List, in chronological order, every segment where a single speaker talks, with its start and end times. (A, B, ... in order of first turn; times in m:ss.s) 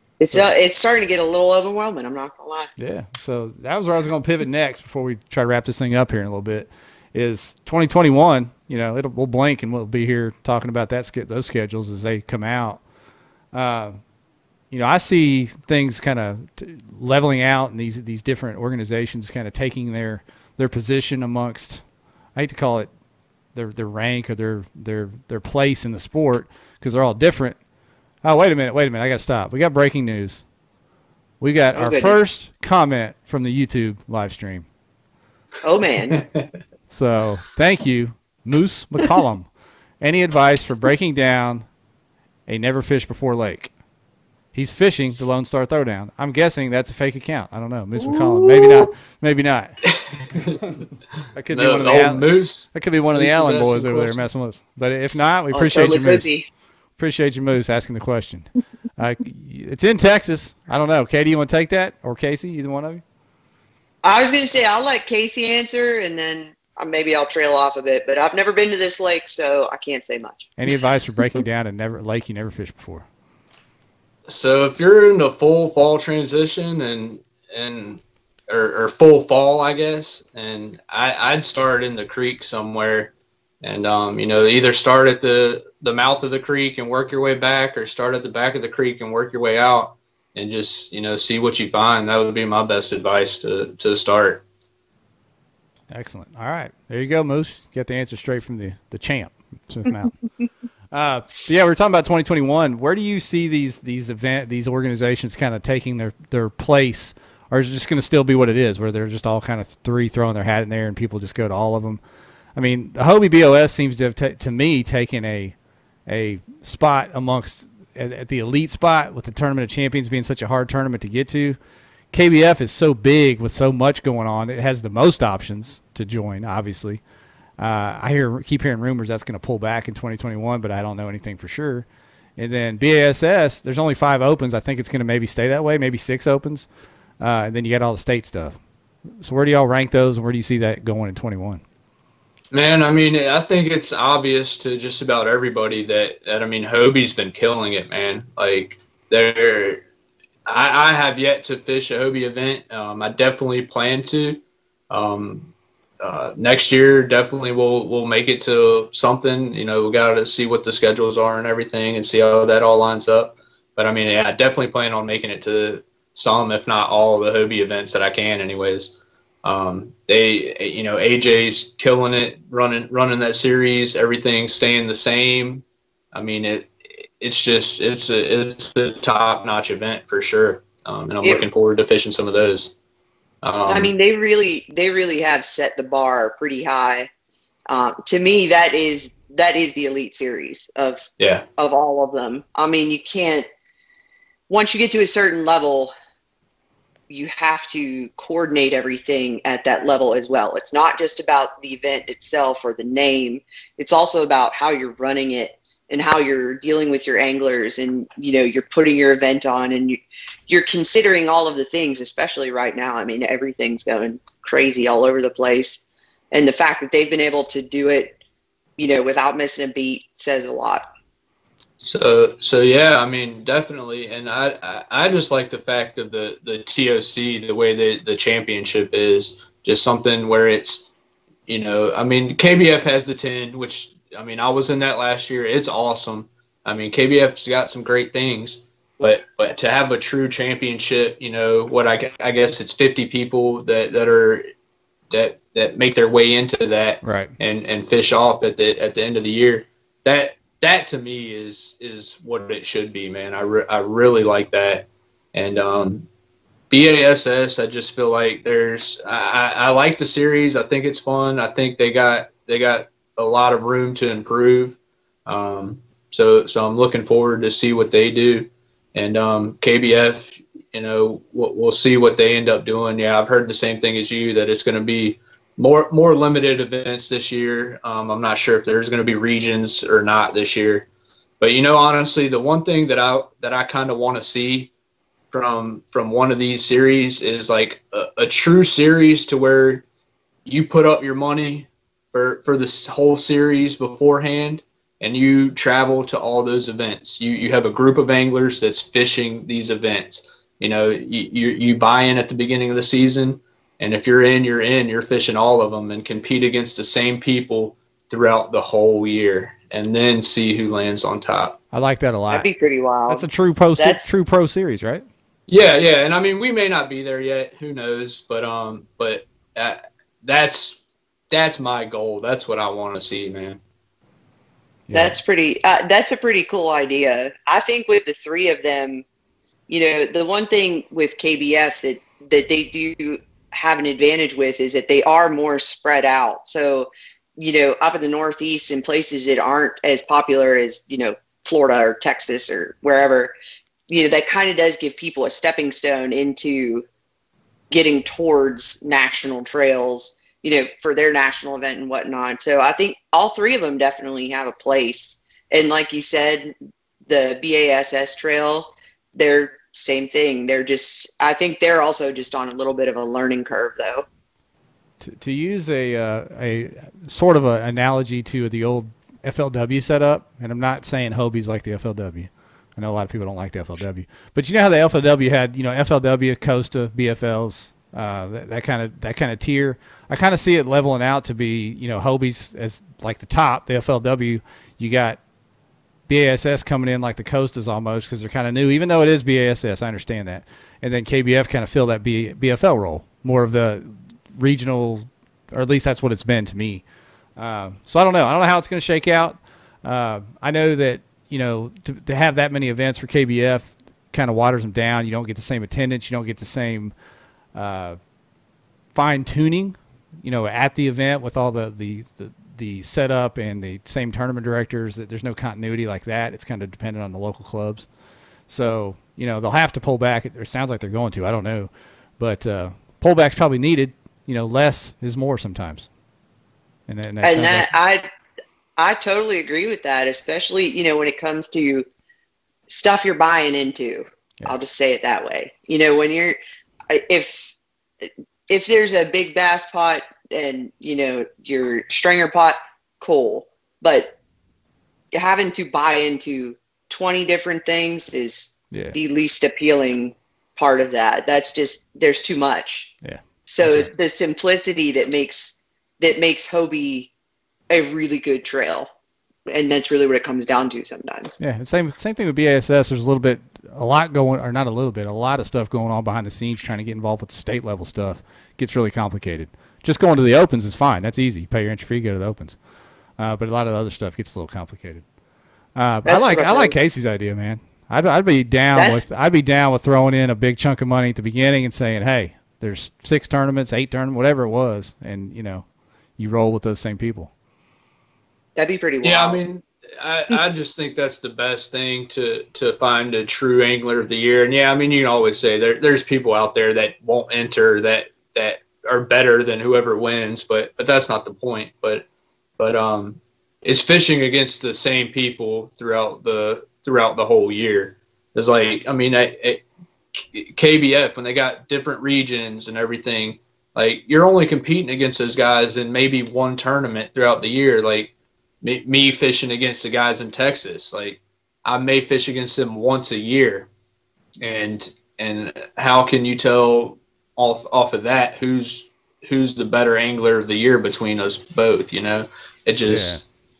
0:00.2-0:02.7 A
0:02.8-0:12.8 B
0:13.5-0:14.0 B
0:14.7-0:21.8 B
0:22.4-0:22.9 B
0:23.6-0:27.6 B
0:28.2-0:30.4 B
0:31.4-0:34.7 B
0:31.7-0:32.2 A
0:35.6-0:36.2 A
0:36.1-0:36.5 C
0:36.9-0:39.5 B
0:40.0-0:41.7 B
0:42.5-0:43.7 B
0:44.5-0:49.8 B
0:48.0-0:48.9 A
0:49.9-0:50.8 C
0:51.4-0:56.3 B
0:51.5-0:54.2 C
0:55.5-0:56.5 A
0:57.0-1:03.0 B
1:04.0-1:10.5 A
1:10.6-1:13.1 B
1:14.3-1:34.4 C
1:35.9-1:40.2 B
1:40.9-1:52.0 B
1:52.6-1:55.6 B
1:56.1-2:01.6 B
2:02.1-2:07.0 B
2:07.6-2:16.7 B
2:17.2-2:18.6 B
2:19.2-2:21.6 B
2:22.5-2:29.8 C
2:30.5-3:02.7 C
3:01.2-3:01.5 A
3:03.4-3:03.9 C
3:03.7-3:07.1 A
3:07.7-3:11.1 A
3:11.2-3:11.4 C
3:11.6-3:13.5 A
3:14.5-3:15.9 A
3:17.1-3:35.8 A
3:36.3-3:38.2 A
3:38.8-3:40.9 A
3:41.8-3:50.9 C
3:51.5-4:04.4 C
4:05.1-4:16.1 C
4:07.0-4:07.3 B
4:16.7-4:40.9 C
4:41.4-4:44.7 C
4:45.3-4:49.8 C
4:50.4-5:11.6 C
5:11.7-5:12.5 B
5:12.3-5:13.3 A
5:13.1-5:15.0 B
5:13.8-5:14.0 A
5:15.5-5:23.6 C
5:24.9-5:25.2 B
5:24.9-5:29.0 A
5:29.7-5:43.3 A
5:43.9-5:46.9 A
5:47.7-5:56.5 A
5:57.1-6:04.1 A
6:05.0-6:25.2 B
6:26.1-6:36.8 B
6:37.4-6:46.9 B
6:47.5-6:48.0 B
6:48.9-6:57.9 B
6:58.5-7:05.9 B
7:06.9-7:07.7 B
7:07.2-7:08.0 A
7:08.8-7:11.9 A
7:12.7-7:16.4 A
7:16.9-7:24.2 A
7:25.1-7:32.9 A
7:33.0-7:33.9 B
7:33.5-7:37.1 A
7:37.7-7:38.9 A
7:39.5-7:41.4 A
7:41.4-7:52.6 B
7:53.2-7:55.0 B
7:55.8-8:05.7 B
7:56.1-7:56.8 A
7:58.8-7:59.0 A
8:06.2-8:07.3 B
8:08.6-8:09.4 A
8:09.0-8:22.0 C
8:22.6-8:43.7 C
8:44.4-8:53.2 C
8:52.9-8:53.2 B